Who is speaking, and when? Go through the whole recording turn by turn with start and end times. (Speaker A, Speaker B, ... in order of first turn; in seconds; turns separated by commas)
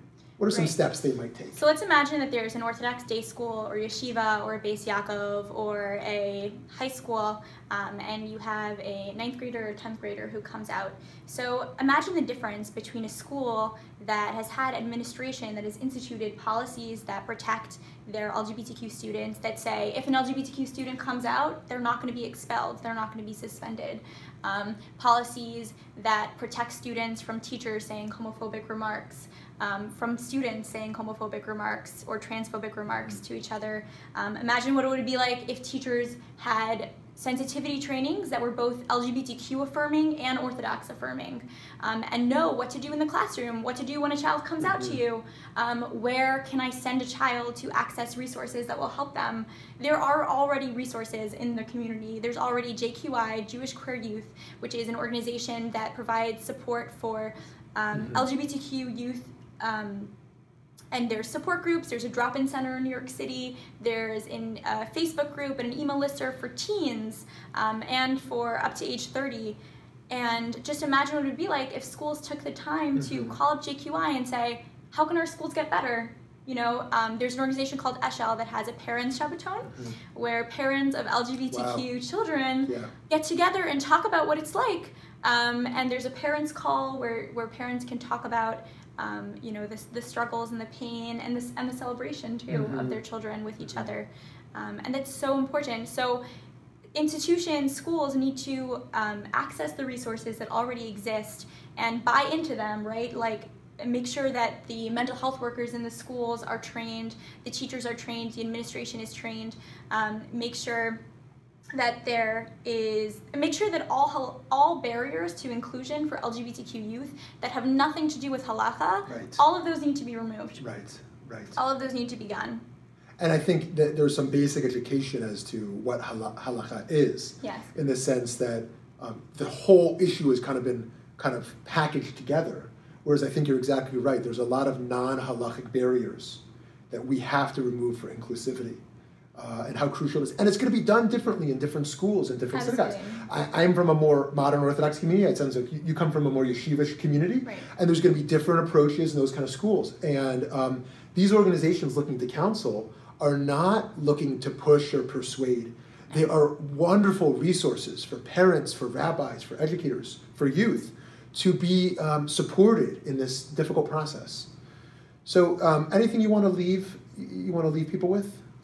Speaker A: 0.4-1.6, Speaker B: 1.5-60.1, Speaker A: 32.9-33.2, Speaker A: 44.6-45.0, Speaker A: 57.9-58.2, Speaker B: 60.9-69.6, Speaker B: 70.1-96.2, Speaker A: 73.0-73.4, Speaker A: 79.7-80.0, Speaker A: 81.5-81.8, Speaker A: 82.6-82.9, Speaker A: 92.5-93.0, Speaker A: 93.6-93.9, Speaker B: 96.9-111.0, Speaker B: 111.7-120.6, Speaker A: 119.1-119.4, Speaker A: 120.6-121.6, Speaker B: 121.5-122.6, Speaker A: 123.2-138.8, Speaker B: 127.4-127.7, Speaker A: 139.3-164.5, Speaker B: 142.5-143.3, Speaker A: 165.2-168.4